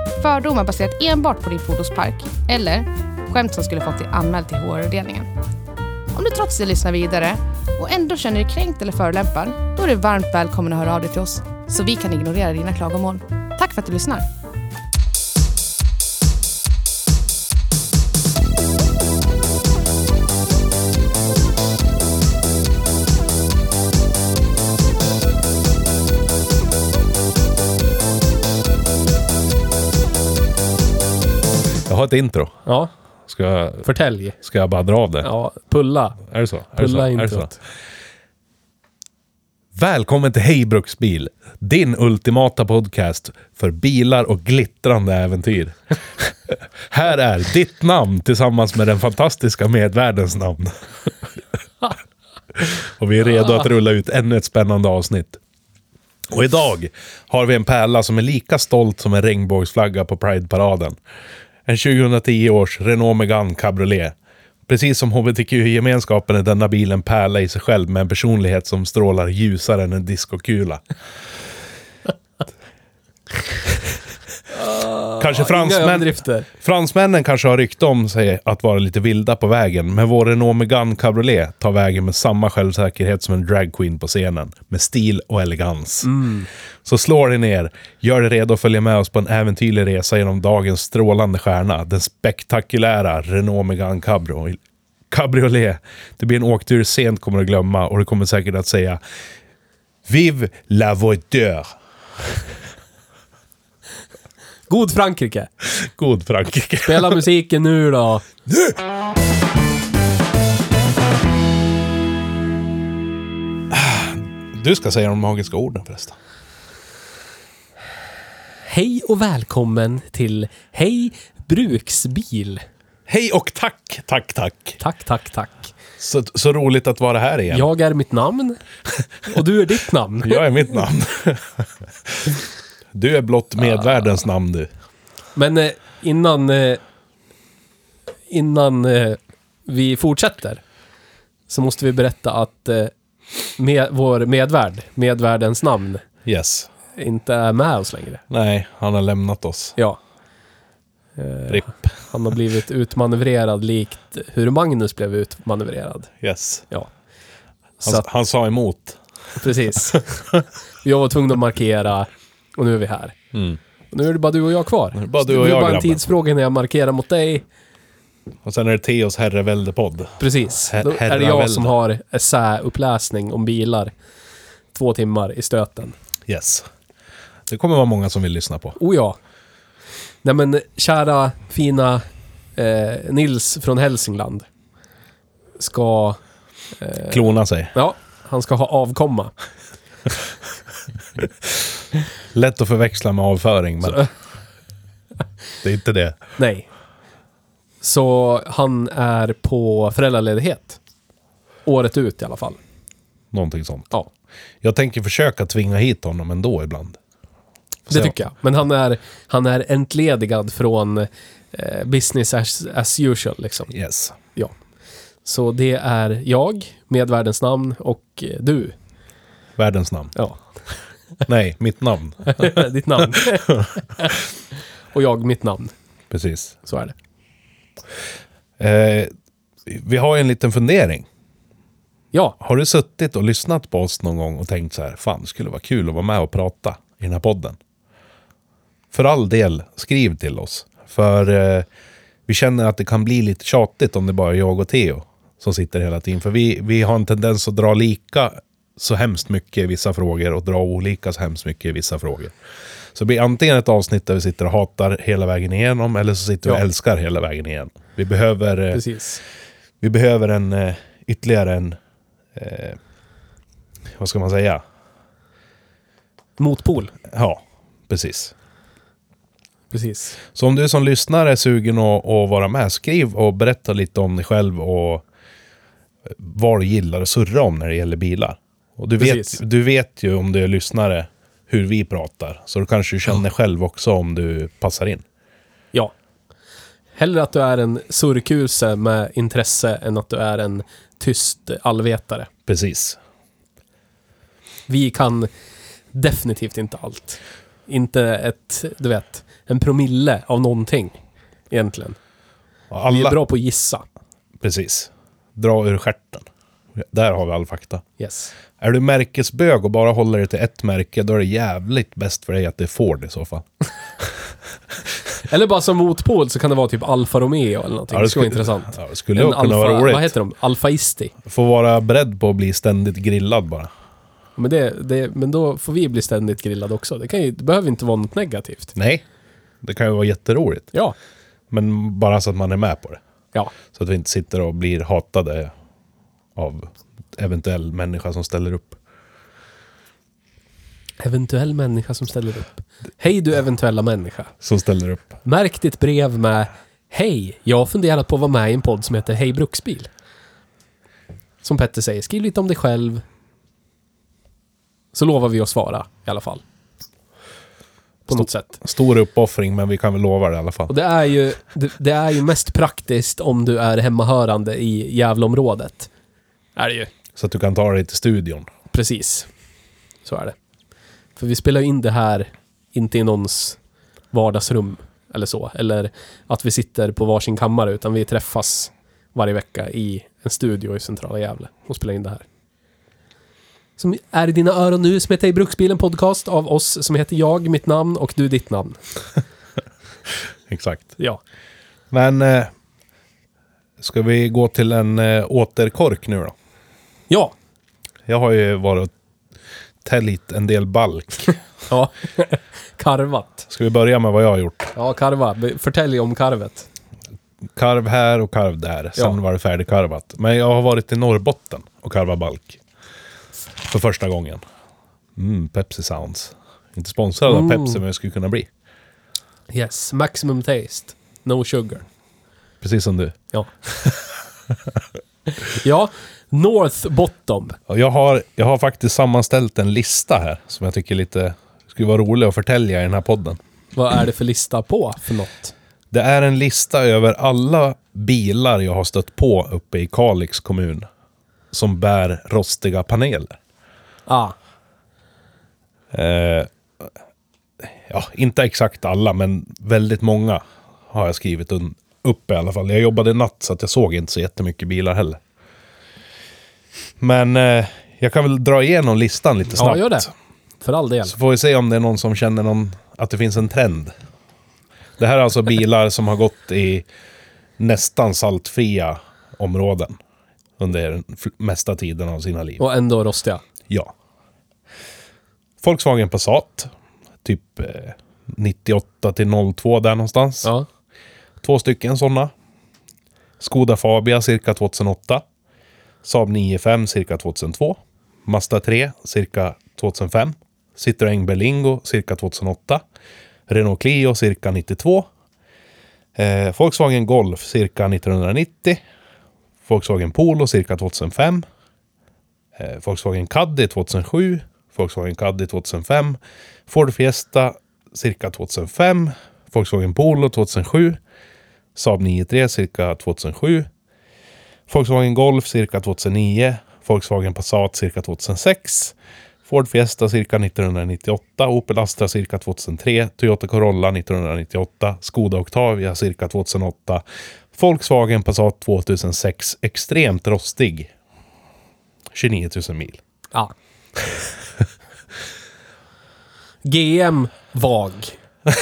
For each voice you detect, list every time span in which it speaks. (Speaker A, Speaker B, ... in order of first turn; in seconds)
Speaker A: 0.2-5.3, 6.1-14.3
Speaker B: 31.9-32.6, 33.3-33.9, 34.4-35.3, 36.2-37.5, 39.8-50.7, 52.5-55.4, 56.3-61.0, 61.7-64.2, 64.7-70.8, 75.2-86.1, 86.8-94.6, 95.1-99.0, 100.1-101.7, 105.6-107.2, 108.5-108.8, 113.7-116.2, 123.1-124.8, 126.0-127.7, 130.2-132.4, 132.9-134.7, 146.2-146.7, 148.3-149.8, 156.2-156.7, 157.8-159.0, 163.3-163.6, 164.9-166.0, 168.4-171.7, 176.3-176.7, 177.5-178.8, 187.1-187.7, 192.3-194.1, 195.6-196.2, 203.3-203.9, 204.6-207.0, 207.9-208.2, 213.7-214.2, 219.6-220.2, 221.2-222.7, 223.2-223.7, 226.1-226.6, 228.6-229.1, 229.7-231.1, 232.4-237.6, 238.9-241.7, 242.3-252.3, 252.9-258.8, 259.8-261.8, 262.4-262.8, 263.9-264.6, 267.1-268.3, 270.3-275.0, 276.1-285.1, 292.5-293.0, 302.7-303.2, 304.4-307.8, 308.6-313.5, 314.0-314.2, 317.9-320.1, 321.2-323.7, 328.8-329.0, 329.6-330.7, 331.5-333.0, 333.7-335.5, 336.4-338.8, 344.4-345.2, 358.1-360.7, 367.1-368.5, 390.5-391.0, 391.9-392.5, 393.8-396.4, 398.1-398.9, 399.8-401.4, 403.5-404.7, 407.5-412.6, 413.6-414.4, 415.2-418.5, 422.6-423.2, 427.7-433.4, 435.9-440.9, 441.5-443.4, 445.9-446.9, 447.6-455.2, 457.0-460.1, 461.1-463.9, 465.0-466.9, 467.6-470.0, 470.6-472.6, 475.6-476.7, 477.2-480.5, 481.4-482.3, 483.4-485.2, 486.0-492.8, 493.5-495.1, 496.2-498.8, 499.7-501.4, 502.6-511.0, 511.8-513.7, 514.7-519.0, 519.5-527.0, 527.5-530.9, 532.1-533.0
Speaker C: 32.7-32.9, 33.8-34.4, 35.2-36.2, 36.8-37.6, 74.5-76.5, 86.0-86.5, 104.7-105.5, 106.9-108.3, 118.7-122.6, 124.8-125.7, 127.5-128.6, 129.2-130.5, 135.4-136.8, 138.3-140.6, 141.5-142.9, 143.6-146.0, 147.0-148.2, 151.2-156.1, 159.4-160.3, 160.8-163.2, 163.9-167.4, 170.2-173.9, 174.7-176.0, 178.8-179.2, 180.2-182.0, 182.6-184.5, 185.6-186.2, 186.8-189.3, 196.4-196.7, 197.8-200.8, 201.7-202.6, 207.9-213.7, 215.2-218.8, 222.3-224.2, 224.9-225.7, 226.6-226.9, 258.7-259.2, 266.4-266.9, 269.7-270.2, 279.0-279.4, 287.0-292.3, 294.7-295.3, 295.9-301.0, 301.5-302.0, 302.9-303.9, 308.0-308.3, 315.2-321.1, 324.4-328.8, 341.0-344.3, 345.2-349.9, 351.4-353.0, 354.9-356.4, 358.1-358.6, 360.7-365.9, 366.6-366.9, 368.7-369.3, 370.1-370.4, 371.2-373.6, 374.1-382.2, 383.8-388.8, 401.7-403.5, 404.8-406.7, 417.3-417.8, 419.5-421.9, 425.4-427.6, 433.8-435.5, 444.1-444.4, 459.6-460.1, 460.6-461.1, 472.6-473.4, 536.6-538.2